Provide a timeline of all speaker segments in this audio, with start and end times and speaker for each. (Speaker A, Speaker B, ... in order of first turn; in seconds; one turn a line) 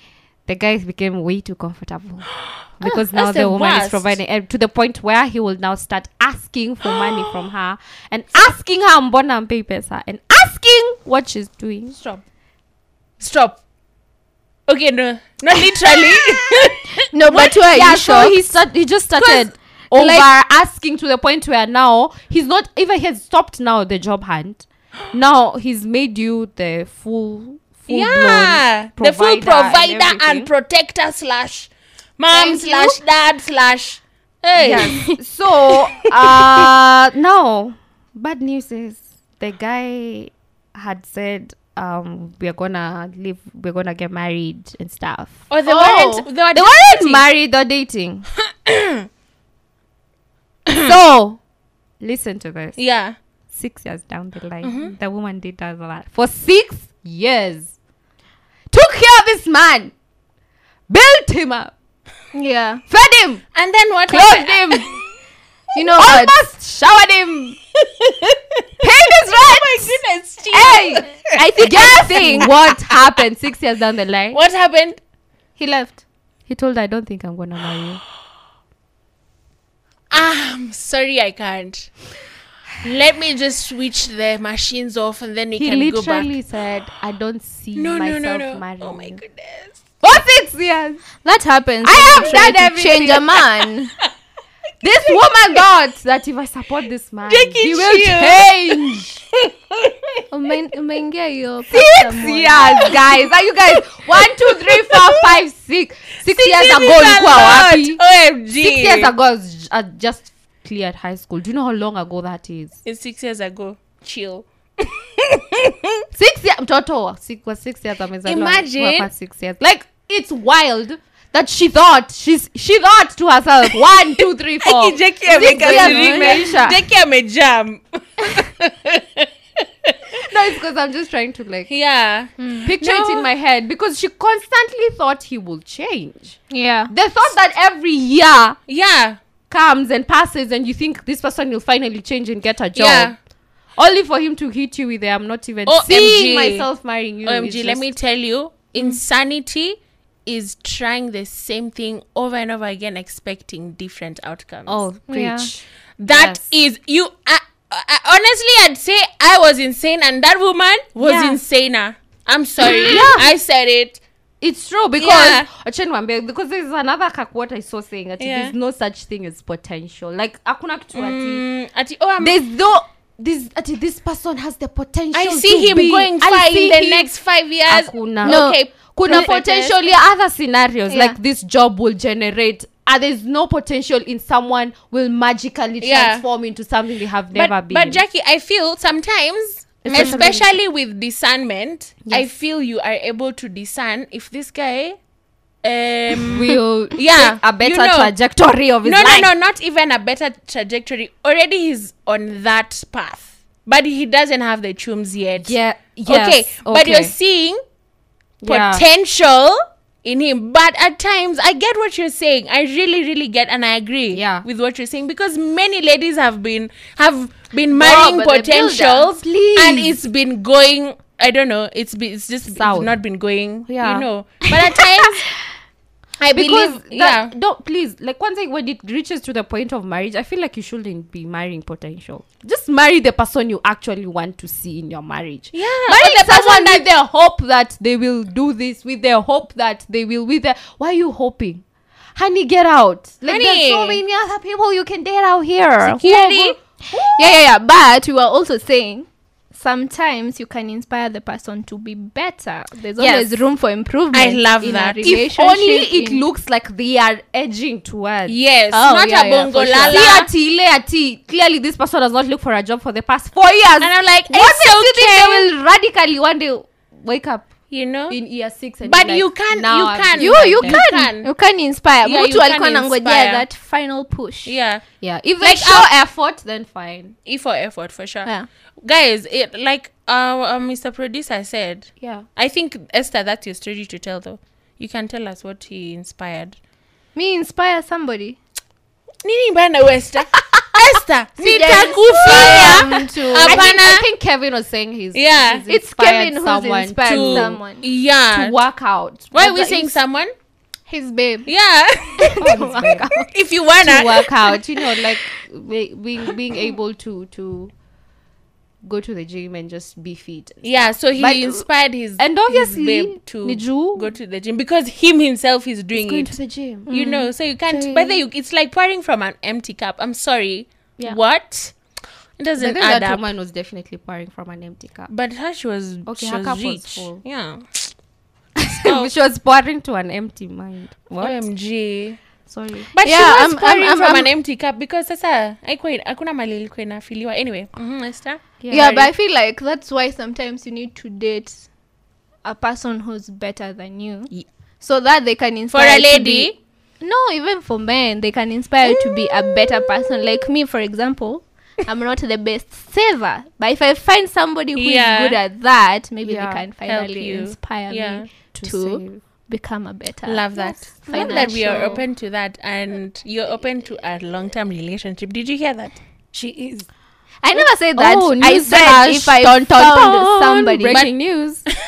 Speaker A: 0.5-12.0
Speaker B: 2.5-4.2
Speaker B: 11.9-12.2
Speaker B: 13.2-13.6
Speaker B: 14.7-17.6
Speaker C: 17.1-18.5
Speaker A: 17.4-30.5
Speaker B: 19.2-19.4
Speaker C: 19.9-20.3
Speaker B: 27.9-35.0
Speaker C: 32.3-33.0
Speaker A: 34.5-45.5
Speaker C: 34.9-35.2
Speaker B: 45.5-47.2
Speaker C: 45.6-46.2
Speaker A: 46.5-48.2
Speaker B: 48.6-49.0
Speaker A: 50.7-51.4
Speaker A: 52.0-52.8
Speaker B: 52.8-53.1
Speaker A: 53.5-57.7
Speaker B: 54.6-54.9
Speaker A: 58.7-59.9
Speaker A: 60.9-61.7
Speaker C: 62.3-62.8
Speaker A: 62.9-63.4
Speaker B: 63.5-65.0
Speaker A: 64.1-64.9
Speaker C: 65.8-66.4
Speaker A: 66.0-67.6
Speaker B: 67.8-73.0
Speaker A: 68.8-74.4
Speaker C: 71.2-72.5
Speaker B: 74.3-75.0
Speaker C: 75.6-76.0
Speaker A: 76.5-78.0
Speaker B: 80.1-81.9
Speaker B: 82.8-86.4
Speaker A: 85.5-89.2
Speaker B: 87.8-89.9
Speaker A: 90.0-91.0
Speaker C: 91.2-93.9
Speaker A: 91.8-93.4
Speaker A: 94.8-99.2
Speaker B: 97.3-100.2
Speaker C: 100.3-103.0
Speaker A: 101.7-108.0
Speaker B: 104.1-105.3
Speaker B: 106.2-109.1
Speaker A: 108.6-112.8
Speaker B: 112.8-115.9
Speaker A: 116.1-126.8
Speaker B: 118.2-119.1
Speaker B: 124.6-129.3
Speaker C: 125.5-126.5
Speaker A: 130.3-131.7
Speaker B: 131.7-133.3
Speaker C: 132.4-132.7
Speaker A: 132.6-138.6
Speaker C: 136.5-136.9
Speaker B: 138.7-139.2
Speaker A: 139.5-143.1
Speaker B: 142.8-143.2
Speaker A: 143.8-147.9
Speaker B: 145.7-146.7
Speaker B: 147.2-154.8
Speaker A: 154.7-156.4
Speaker C: 155.1-155.5
Speaker B: 156.0-164.0
Speaker A: 161.0-161.4
Speaker A: 162.6-163.3
Speaker A: 164.4-171.4
Speaker B: 165.0-165.5
Speaker B: 168.2-168.5
Speaker B: 170.9-172.4
Speaker A: 172.2-177.1
Speaker B: 175.1-179.8
Speaker A: 177.7-188.0
Speaker C: 178.2-179.3
Speaker C: 180.9-181.2
Speaker B: 185.8-186.2
Speaker B: 187.3-195.0
Speaker A: 189.8-190.5
Speaker C: 189.9-190.3
Speaker B: 195.6-198.1
Speaker A: 196.2-199.3
Speaker B: 198.8-207.6
Speaker A: 205.4-207.1
Speaker A: 208.4-208.8
Speaker B: 208.4-225.2
Speaker A: 214.1-214.4
Speaker C: 217.8-219.1
Speaker A: 218.5-220.0
Speaker A: 222.5-222.9
Speaker A: 223.7-224.1
Speaker B: 226.2-227.3
Speaker A: 226.3-241.6
Speaker B: 235.5-236.9
Speaker A: 242.1-246.4
Speaker B: 243.2-244.0
Speaker B: 245.8-246.6
Speaker C: 246.0-256.2
Speaker A: 253.0-253.3
Speaker B: 254.1-255.1
Speaker A: 255.0-258.4
Speaker B: 258.2-260.3
Speaker C: 258.7-260.1
Speaker A: 259.6-267.5
Speaker B: 263.8-265.5
Speaker B: 267.7-268.2
Speaker A: 268.1-270.8
Speaker B: 268.8-271.3
Speaker C: 270.2-274.5
Speaker B: 272.0-273.4
Speaker B: 274.4-274.8
Speaker A: 275.0-277.1
Speaker B: 275.4-275.9
Speaker B: 277.2-278.3
Speaker B: 278.8-286.6
Speaker A: 282.0-282.2
Speaker C: 287.1-288.4
Speaker B: 289.2-294.1
Speaker C: 291.4-293.8
Speaker A: 292.2-297.6
Speaker B: 295.1-295.6
Speaker C: 295.7-297.8
Speaker B: 297.1-298.6
Speaker A: 298.3-299.9
Speaker B: 299.3-300.3
Speaker C: 300.9-301.5
Speaker B: 301.4-302.3
Speaker C: 302.2-303.3
Speaker A: 302.4-303.3
Speaker B: 303.3-304.6
Speaker A: 303.8-307.7
Speaker A: 308.8-311.7
Speaker B: 310.6-316.4
Speaker A: 312.2-314.1
Speaker A: 315.9-316.9
Speaker B: 316.9-321.8
Speaker C: 316.9-317.3
Speaker A: 317.7-318.2
Speaker B: 322.4-323.3
Speaker A: 322.6-325.1
Speaker B: 325.1-327.9
Speaker A: 326.1-327.2
Speaker A: 328.6-331.4
Speaker B: 328.6-329.1
Speaker B: 331.2-332.2
Speaker A: 332.4-332.9
Speaker B: 332.9-339.0
Speaker C: 333.0-334.3
Speaker A: 338.6-339.1
Speaker C: 338.7-341.7
Speaker C: 342.4-362.0
Speaker B: 345.7-346.6
Speaker B: 354.7-355.4
Speaker A: 356.2-356.6
Speaker B: 356.9-358.3
Speaker A: 358.5-359.2
Speaker B: 360.2-366.8
Speaker A: 361.0-362.0
Speaker C: 367.4-371.0
Speaker A: 367.5-371.6